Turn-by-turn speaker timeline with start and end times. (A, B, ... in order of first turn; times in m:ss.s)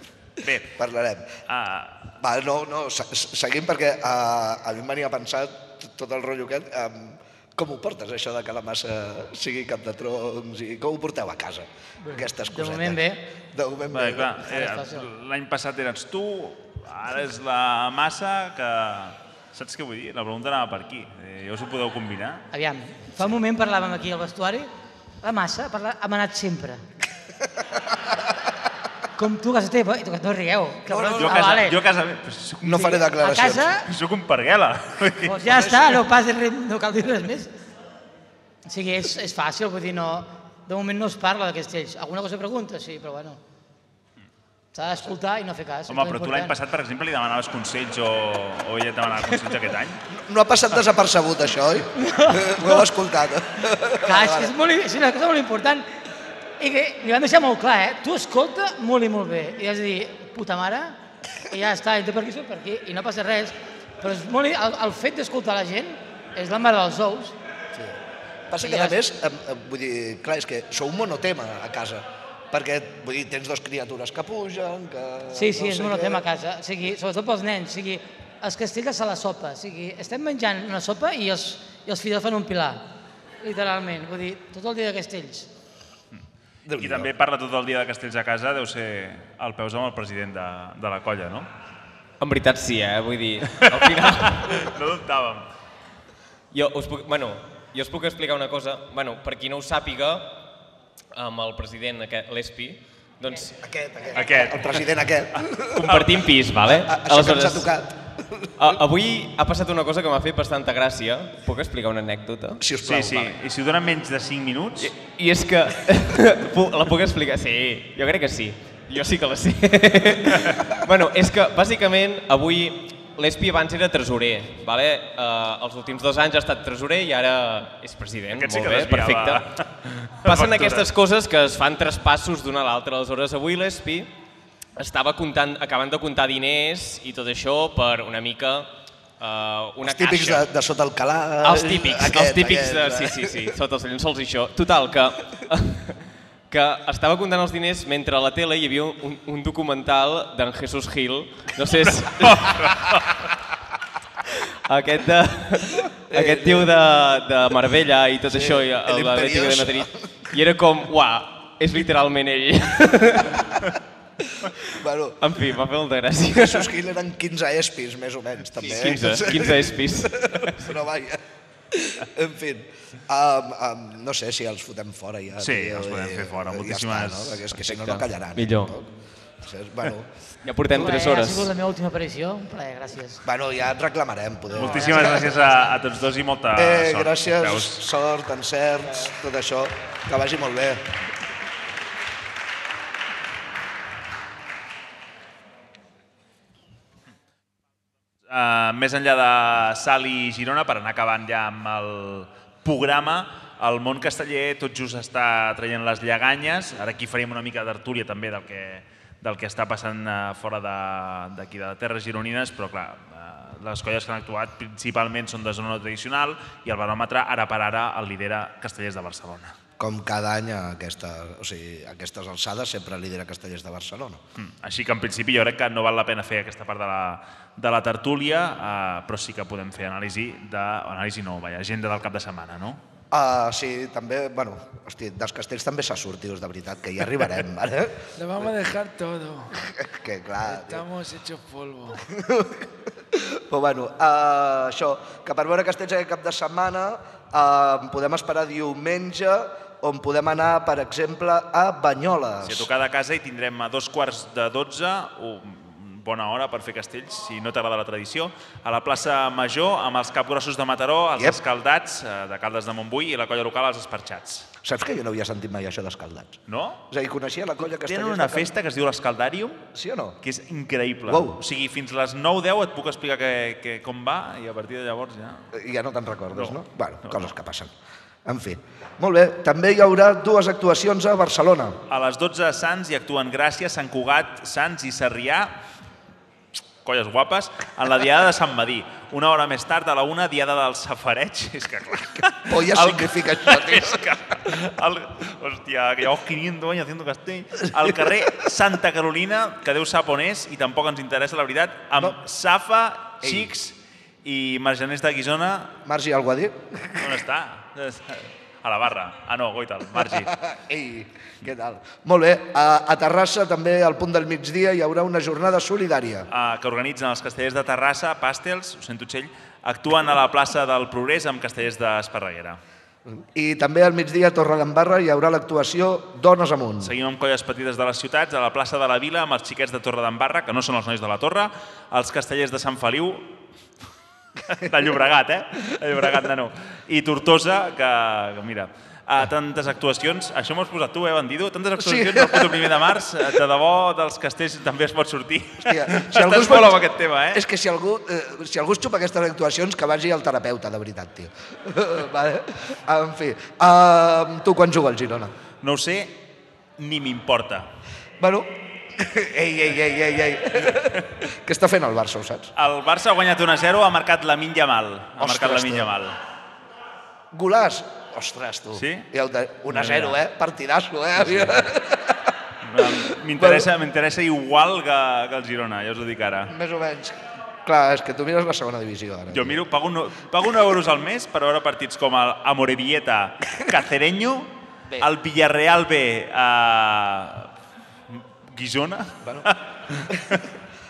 0:00.4-0:01.4 A
0:01.5-0:02.2 B
0:02.2-0:13.0 A
0:12.0-0:13.2 C
0:13.5-0:14.5 A
0:13.9-0:22.5 B
0:14.4-0:15.1 C
0:22.5-0:24.7 C
0:25.2-0:26.8 C
0:29.2-0:31.8 C
0:30.9-0:31.5 A
0:31.2-0:33.0 B
0:32.6-0:33.7 A
0:32.7-0:33.9 C
0:33.8-0:35.6 B
0:35.2-0:37.5 C
0:35.5-0:36.0 A
0:38.6-0:43.4 C
0:44.7-0:46.5 C
0:45.9-0:50.0 B
0:50.1-0:54.5 A
0:52.0-0:52.7 C
0:54.0-0:55.9 C
0:56.6-1:07.4 C
1:07.7-1:16.2 A
1:08.6-1:09.0 C
1:15.3-1:22.8 C
1:23.4-1:25.5 C
1:26.6-1:27.1 A
1:26.7-1:31.5 B
1:32.2-1:34.7 D
1:33.6-1:35.5 B
1:36.5-1:40.4 D
1:41.1-1:43.6 D
1:43.6-1:45.9 A
1:44.1-1:46.3 B
1:45.8-1:47.7 D
1:46.7-1:48.7 A
1:48.6-1:52.6 D
1:52.6-1:53.3 A
1:52.8-1:54.9 B
1:54.8-2:09.6 D
2:08.3-2:10.9 B
2:10.2-2:14.1 D
2:14.8-2:20.4 D
2:19.8-2:23.5 A
2:21.4-2:32.7 D
2:31.9-2:33.2 B
2:34.7-2:43.5 D
2:36.1-2:36.7 A
2:38.3-2:40.0 A
2:44.7-2:45.2 A
2:45.2-2:46.7 D
2:46.3-3:00.1 A
2:48.6-2:50.7 D
2:55.4-2:57.5 B
2:57.6-2:58.8 D
3:00.4-3:01.5 D
3:00.7-3:03.2 C
3:03.2-3:05.3 A
3:04.5-3:07.8 B
3:05.1-3:05.5 C
3:06.5-3:10.8 A
3:18.3-3:39.6 B
3:39.8-3:44.2 A
3:44.4-3:52.8 B
3:53.1-3:58.5 A
3:58.2-3:59.6 E
3:59.5-4:00.8 A
4:00.4-4:02.0 E
4:02.0-4:12.7 A
4:12.4-4:24.5 B
4:24.6-4:26.4 A
4:26.5-4:26.8 B
4:26.9-4:28.5 A
4:27.6-4:29.6 B
4:29.7-4:30.2 A
4:30.2-4:35.5 B
4:31.0-4:31.4 A
4:35.5-4:37.7 A
4:36.3-4:37.3 B
4:38.2-4:41.8 A
4:41.9-4:45.6 B
4:46.8-5:05.8 B
4:52.4-4:54.0 A
5:03.2-5:03.5 A
5:05.8-5:07.2 A
5:07.0-5:10.4 B
5:10.0-5:16.3 A
5:16.3-5:22.6 B
5:23.1-5:26.9 A
5:26.8-5:33.4 B
5:34.4-5:47.4 B
5:41.8-5:42.7 A
5:45.6-5:55.3 A
5:55.6-5:56.2 B
5:56.8-5:57.7 B
5:58.2-6:02.5 A
6:02.5-6:06.2 B
6:05.2-6:05.9 A
6:07.3-6:13.7 A
6:08.7-6:09.1 B
6:09.7-6:10.2 B
6:11.3-6:11.6 B
6:12.6-6:16.5 B
6:16.5-6:19.6 A
6:19.3-6:27.5 B
6:28.1-6:30.4 B
6:29.2-6:29.5 A
6:30.1-6:30.4 A